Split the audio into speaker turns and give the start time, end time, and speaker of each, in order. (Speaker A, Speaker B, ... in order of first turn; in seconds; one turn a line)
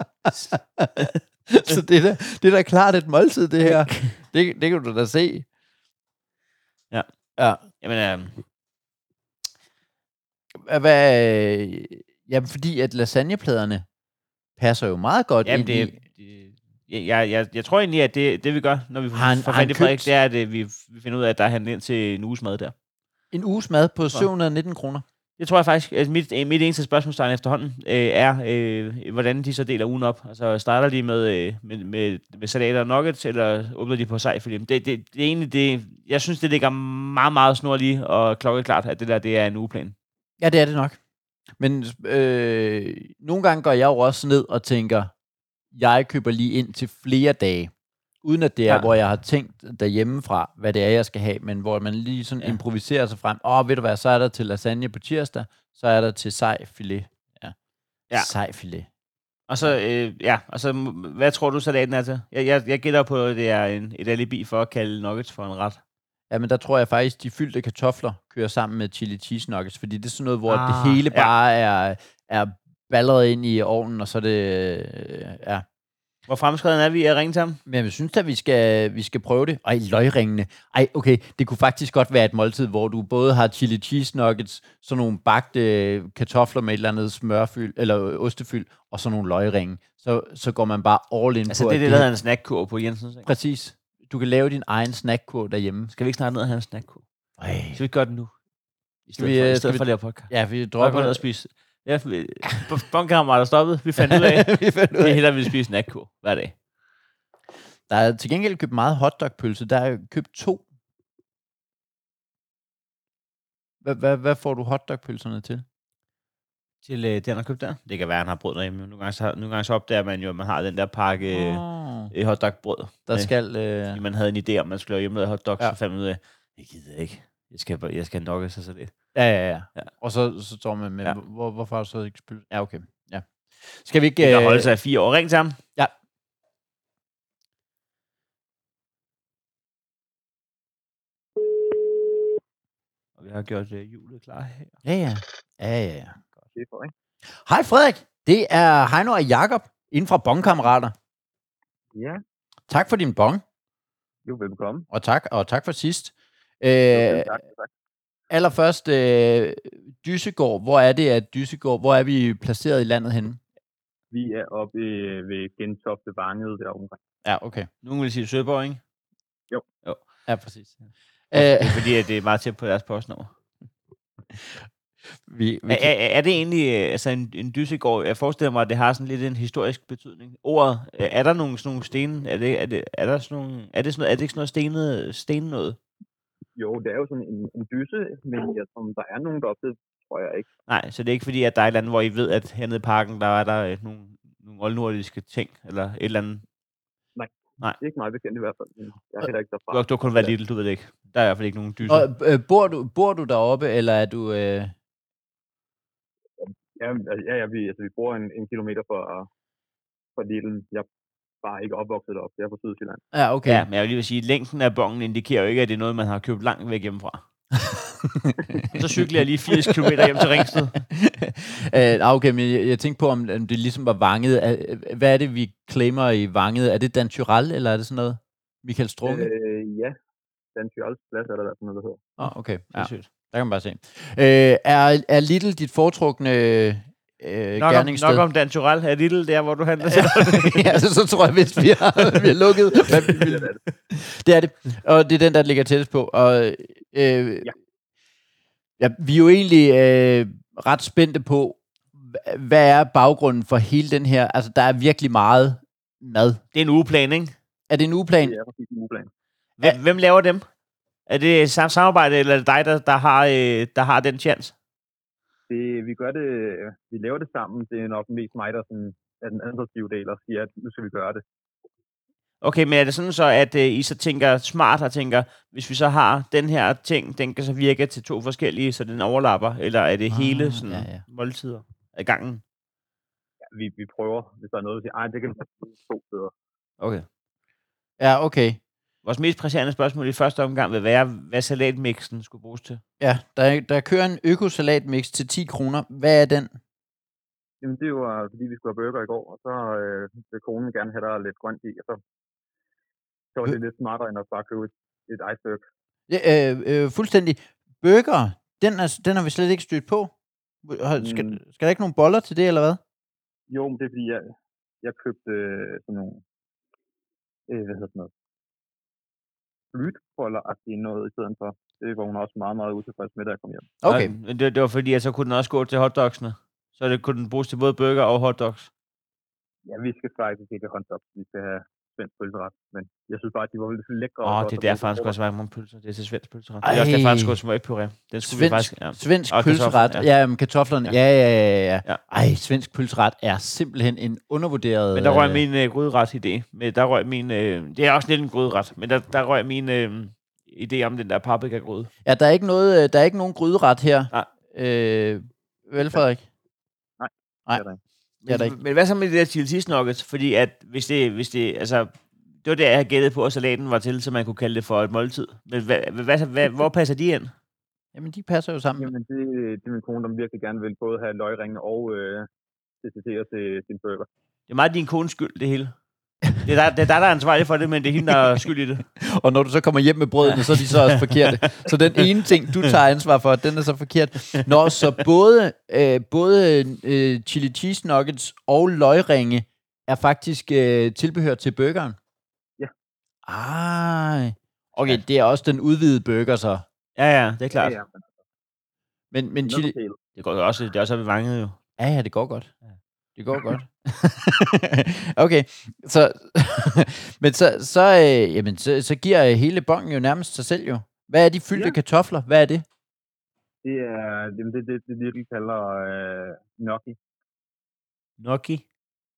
Speaker A: 0.3-5.5
Speaker B: 3.6-4.1
Speaker A: 7.4-7.6
Speaker B: 7.8-8.4
Speaker A: 10.6-13.8
Speaker A: 14.6-15.9
Speaker B: 15.4-22.7
Speaker A: 19.1-20.1
Speaker A: 23.3-25.0
Speaker B: 25.4-40.0
Speaker A: 40.4-41.0
Speaker A: 41.6-45.1
Speaker A: 45.7-47.7
Speaker A: 48.2-57.5
Speaker A: 58.1-58.9
Speaker B: 59.5-65.8
Speaker A: 66.3-75.6
Speaker B: 70.5-71.3
Speaker B: 76.3-77.6
Speaker A: 77.7-92.1
Speaker B: 91.5-93.3
Speaker A: 93.2-95.9
Speaker B: 95.9-97.0
Speaker A: 97.4-97.8
Speaker B: 97.7-98.3
Speaker B: 99.1-106.5
Speaker A: 99.1-101.2
Speaker A: 104.0-105.2
Speaker A: 107.9-110.6
Speaker A: 113.8-115.7
Speaker B: 116.8-123.3
Speaker A: 121.3-122.1
Speaker A: 123.1-124.0
Speaker B: 123.9-128.9
Speaker A: 129.1-134.7
Speaker B: 134.2-135.6
Speaker B: 143.2-144.7
Speaker A: 144.8-146.2
Speaker C: 146.5-146.9
Speaker A: 147.4-150.9
Speaker C: 151.9-152.2
Speaker A: 152.7-153.4
Speaker C: 154.2-154.9
Speaker A: 154.9-157.3
Speaker C: 156.9-157.7
Speaker A: 158.3-163.4
Speaker C: 164.1-167.0
Speaker A: 167.2-167.7
Speaker B: 167.8-168.8
Speaker A: 170.3-170.8
Speaker A: 171.3-171.9
Speaker B: 171.3-173.3
Speaker A: 175.3-175.9
Speaker B: 175.7-185.8
Speaker C: 186.6-190.5
Speaker B: 190.7-196.4
Speaker C: 197.2-200.3
Speaker B: 199.7-202.1
Speaker A: 201.9-204.7
Speaker C: 206.4-209.3
Speaker C: 210.2-210.9
Speaker C: 211.4-213.0
Speaker A: 213.1-213.7
Speaker B: 213.5-217.2
Speaker A: 217.5-229.3
Speaker B: 218.7-220.8
Speaker C: 229.0-230.0
Speaker C: 230.6-232.1
Speaker A: 232.2-238.2
Speaker B: 232.7-233.1
Speaker B: 237.6-240.8
Speaker A: 239.8-247.5
Speaker C: 243.0-243.6
Speaker A: 248.8-256.4
Speaker B: 256.5-257.4
Speaker A: 257.7-258.4
Speaker C: 258.2-259.1
Speaker B: 259.6-260.4
Speaker B: 261.1-264.6
Speaker C: 265.5-271.2
Speaker B: 272.4-282.4
Speaker A: 280.1-281.0
Speaker C: 283.5-286.3
Speaker B: 286.8-287.1
Speaker A: 288.0-288.6
Speaker B: 289.1-292.8
Speaker A: 293.0-296.5
Speaker C: 297.6-302.0
Speaker C: 303.4-305.6
Speaker A: 306.1-310.1
Speaker A: 310.6-312.8
Speaker C: 311.0-311.4
Speaker C: 313.5-316.2
Speaker C: 317.5-318.1
Speaker C: 319.7-323.7
Speaker A: 323.8-324.1
Speaker B: 323.9-328.7
Speaker C: 329.7-335.1
Speaker B: 334.2-340.1
Speaker A: 336.6-337.4
Speaker A: 338.2-345.4
Speaker B: 344.9-351.9
Speaker A: 352.1-356.2
Speaker C: 357.0-357.8
Speaker A: 358.3-358.6
Speaker B: 358.3-367.3
Speaker A: 367.9-368.9
Speaker C: 368.8-372.3
Speaker C: 372.8-374.1
Speaker B: 374.5-375.7
Speaker B: 376.4-378.9
Speaker A: 379.0-392.0
Speaker B: 380.5-381.7
Speaker A: 393.3-396.7
Speaker B: 397.0-397.8
Speaker C: 397.6-398.0
Speaker A: 399.1-399.8
Speaker C: 399.5-400.0
Speaker B: 400.2-401.6
Speaker A: 401.8-402.5
Speaker A: 403.2-412.6
Speaker C: 413.6-417.0
Speaker B: 418.2-418.6